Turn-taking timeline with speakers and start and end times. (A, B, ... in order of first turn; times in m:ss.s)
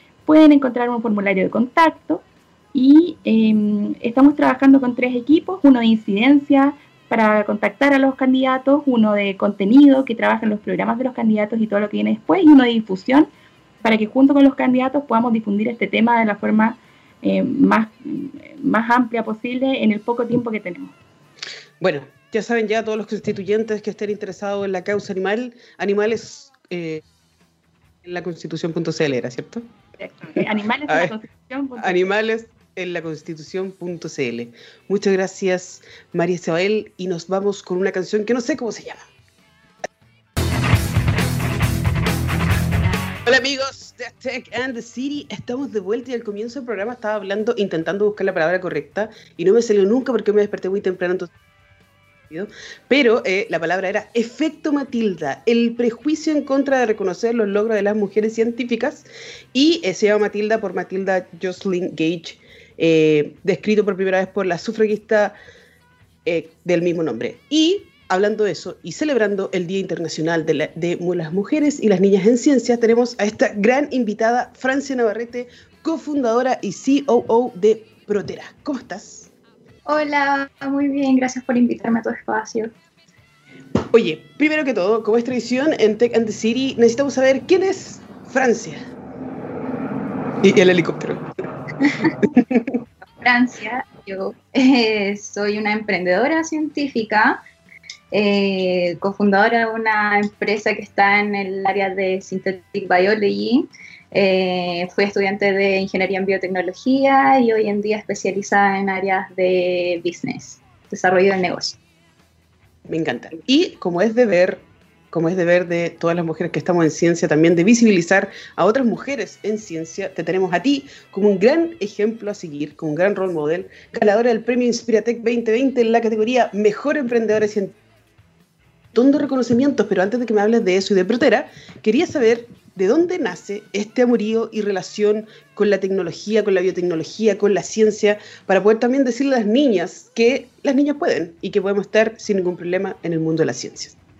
0:00.2-0:13.3 A
0:13.8-0:20.9 A
0:21.8-0:27.0 B
0:28.0-0:29.7 B
0:30.0-0:32.1 A
0:30.9-0:31.1 B
0:31.8-0:39.1 B
0:43.2-0:51.3 B
0:52.3-1:05.4 B
1:06.2-1:19.3 B
1:19.8-1:22.7 C
1:23.9-1:28.8 B
1:30.4-1:31.2 B
1:31.8-1:32.6 B
1:32.0-1:32.4 C
1:33.1-1:37.4 C
1:38.1-1:51.8 C
1:52.9-2:07.7 B
2:08.9-2:24.0 B